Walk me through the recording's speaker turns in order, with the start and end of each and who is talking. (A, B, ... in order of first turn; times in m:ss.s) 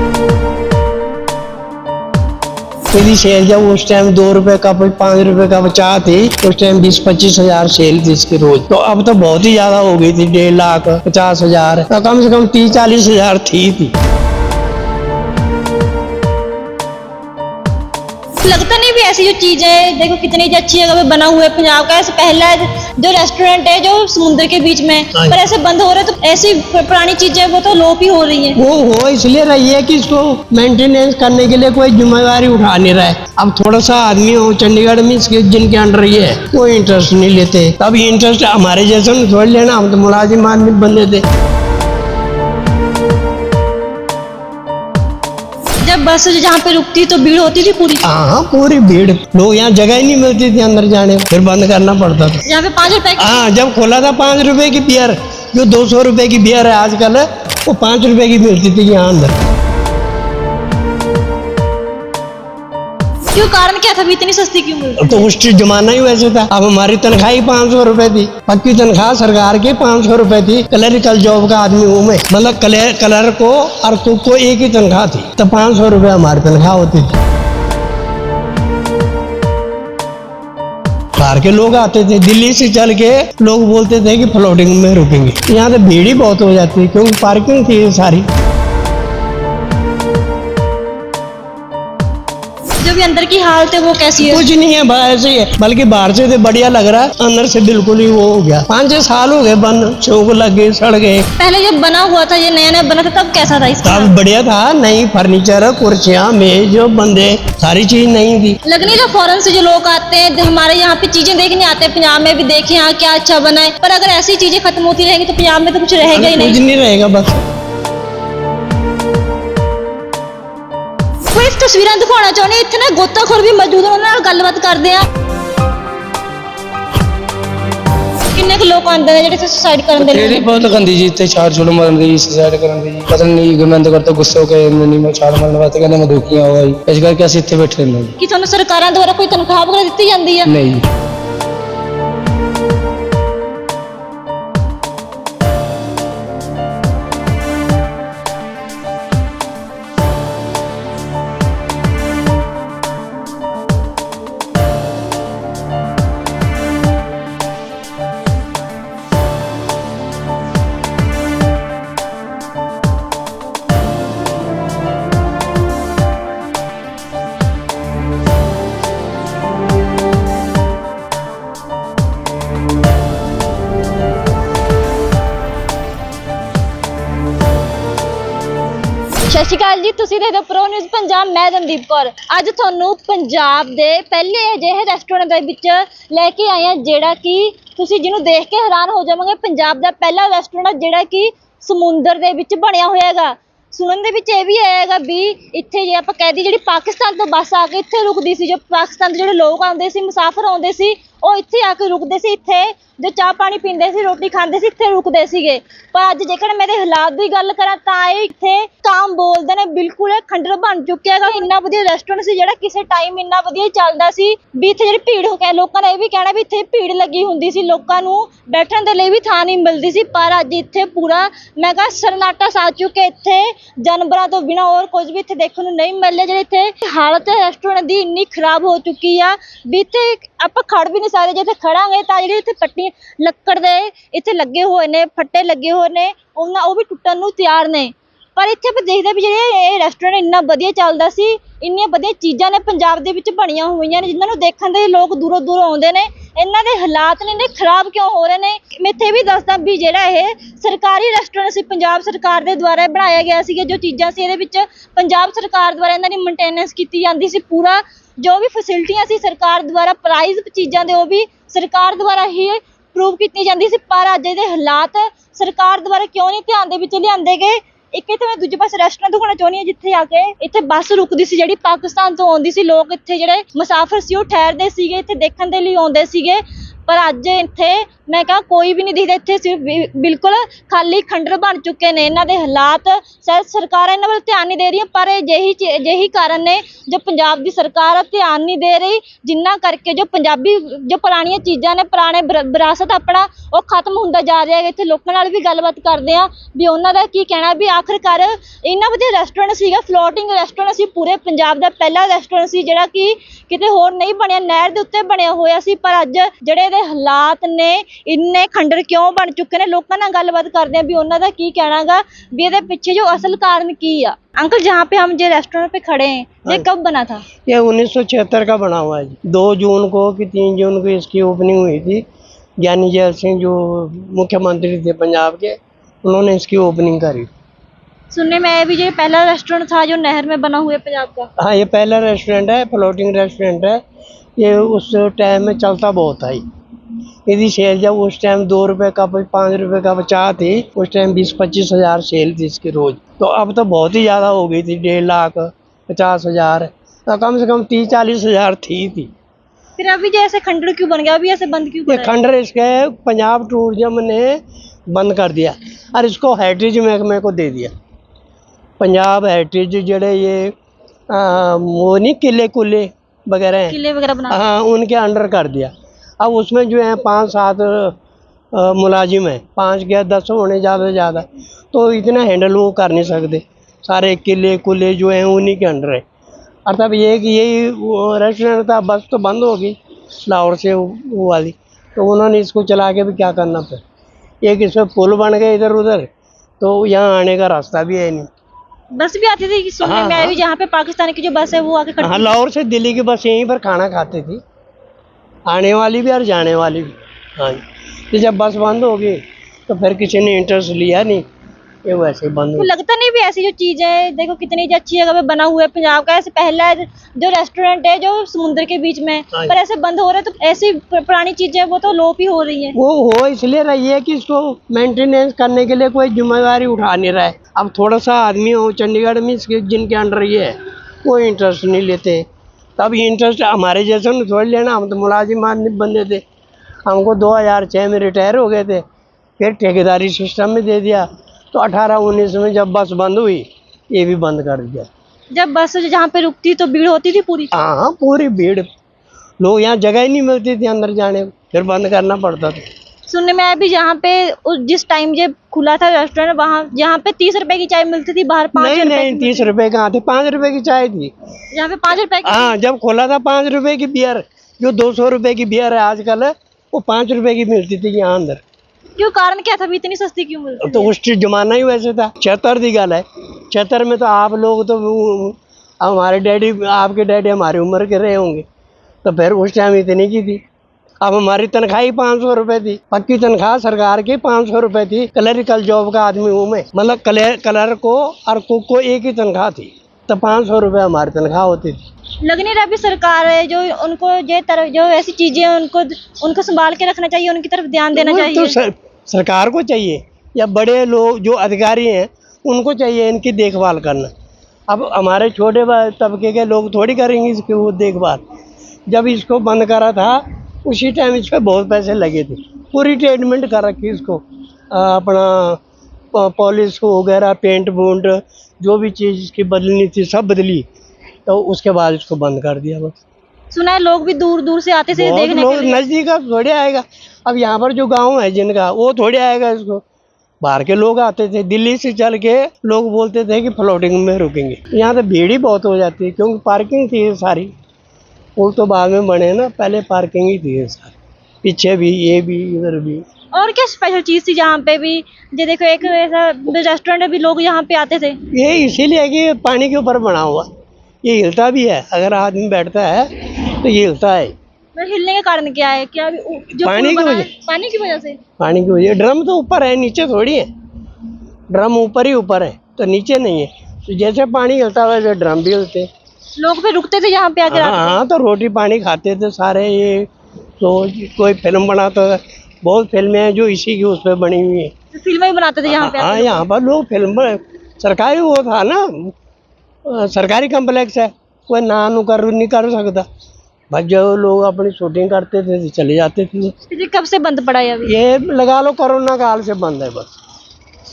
0:02.9-0:13.9 A
0:18.4-0:28.6 B
0:25.1-0:25.4 A
0:28.6-0:41.2 A
0:45.8-0:48.0 B
0:48.0-0:52.4 A
0:52.4-0:53.5 B
0:53.2-0:59.3 A
1:03.3-1:05.3 B
1:05.0-1:17.1 A
1:21.2-1:28.2 A
1:32.8-1:34.4 B
1:34.2-1:41.2 A
1:41.4-1:44.1 B
1:43.8-1:48.6 A
1:48.6-1:56.6 B
1:56.1-1:57.4 A
2:01.3-2:05.0 B
2:08.3-2:10.4 B
2:10.0-2:18.1 C
2:18.2-2:20.5 B
2:20.5-2:20.8 C
2:59.2-5:17.2 B
5:17.4-5:22.0 A
5:22.6-5:27.3 A
5:28.1-5:31.3 B
5:31.4-5:33.8 A
5:34.4-5:36.4 A
5:37.3-5:49.1 A
5:49.8-5:52.2 B
5:51.9-5:57.7 A
5:58.8-6:00.5 A
6:01.1-6:03.8 A
6:03.7-6:04.4 B
6:04.3-6:07.9 A
6:08.5-6:16.0 A
6:16.6-6:23.8 A
6:24.4-6:26.1 A
6:26.6-6:28.3 A
6:28.9-6:32.3 B
6:29.8-6:30.4 A
6:32.0-6:34.4 A
6:35.5-6:41.2 A
6:41.8-6:42.7 A
6:42.6-6:52.8 B
6:52.8-7:02.2 A
7:02.8-7:06.2 A
7:06.8-7:08.8 A
7:09.4-7:14.9 A
7:15.3-7:17.5 B
7:17.5-7:18.6 A
7:19.4-7:22.6 A
7:23.1-7:29.5 B
7:28.6-7:31.1 A
7:31.5-7:32.5 B
7:32.2-7:38.4 A
7:39.0-7:40.9 B
7:40.6-7:48.4 A
7:49.0-7:50.4 A
7:51.0-8:01.8 A
8:02.2-8:08.6 B
8:07.9-8:14.1 A
8:14.7-8:18.2 A
8:18.9-8:25.6 A
8:26.1-8:30.6 A
8:31.3-8:33.0 A
8:33.5-8:35.8 B
8:34.9-8:39.8 A
8:40.4-8:47.5 A
8:48.4-8:53.0 A
8:53.3-8:58.2 B
8:58.3-9:00.5 A
9:01.0-9:04.3 A
9:04.8-9:08.2 B
9:06.6-9:07.3 A
9:08.4-9:10.5 A
9:11.5-9:15.9 A
9:16.4-9:18.0 B
9:17.5-9:20.1 A
9:20.6-9:24.7 A
9:24.9-9:26.4 B
9:25.7-9:29.1 A
9:29.8-9:33.0 A
9:33.7-9:36.5 A
9:36.7-9:37.9 B
9:37.8-9:40.1 A